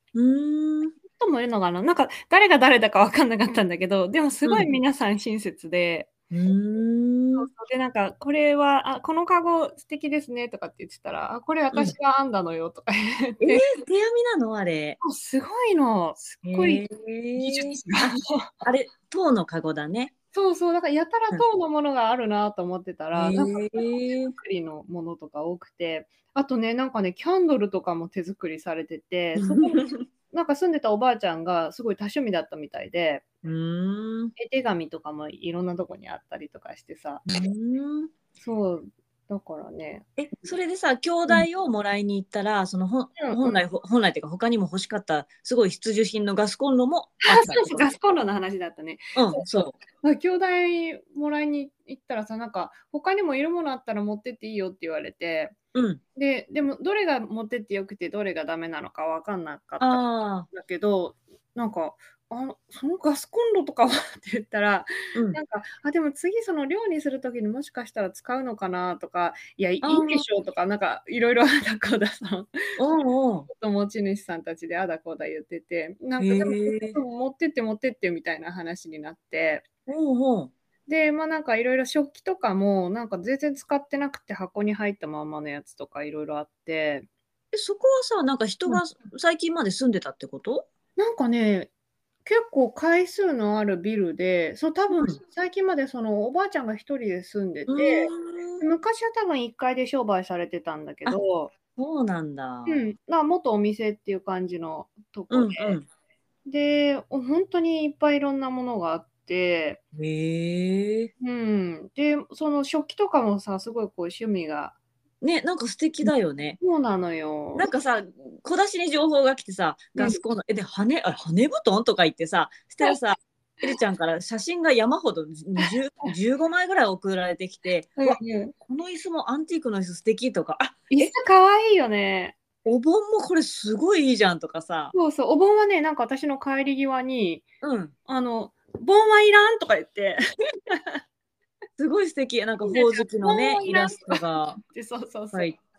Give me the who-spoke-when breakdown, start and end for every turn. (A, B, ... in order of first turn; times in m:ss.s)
0:00.2-0:01.0 A
0:01.1-0:06.1 B
0:04.4-0:04.7 A
0:06.3-0:07.5 A
0:07.4-0:13.6 B
0:13.4-0:15.0 A
0:15.0-0:18.5 B
0:16.4-0:20.1 A
0:20.3-0:33.2 B
0:23.2-0:24.4 A
0:29.4-0:30.1 A
0:33.4-0:34.3 A
0:34.4-0:37.2 B
0:37.3-0:38.1 A
0:38.4-0:40.1 B
0:40.2-0:47.9 A
0:43.2-0:43.6 B
0:47.2-0:49.4 B
0:49.2-0:49.8 A
0:50.0-0:55.6 B
0:55.7-0:56.0 A
0:56.2-1:12.8 B
0:59.8-1:00.5 A
1:05.1-1:05.4 A
1:09.8-1:10.3 A
1:12.8-1:13.5 A
1:13.5-1:19.6 B
1:16.2-1:17.0 A
1:19.9-1:20.5 A
1:20.9-1:27.1 B
1:27.5-1:30.7 A
1:31.0-1:31.7 B
1:32.2-1:41.5 B
1:34.9-1:35.2 A
1:37.7-1:38.6 A
1:41.8-1:42.9 A
1:42.7-1:45.8 B
1:45.3-1:45.9 A
1:46.5-1:49.8 B
1:50.0-1:51.1 A
1:51.2-1:54.8 B
1:55.2-1:56.6 A
1:56.6-1:57.7 B
1:57.6-2:11.1 A
2:00.0-2:00.2 B
2:08.0-2:08.5 B
2:10.9-2:12.4 B
2:12.6-2:14.9 A
2:14.9-2:17.5 B
2:17.6-2:17.9 A
2:18.1-2:21.0 B
2:21.8-2:24.6 A
2:22.6-2:25.5 B
2:25.3-2:25.6 A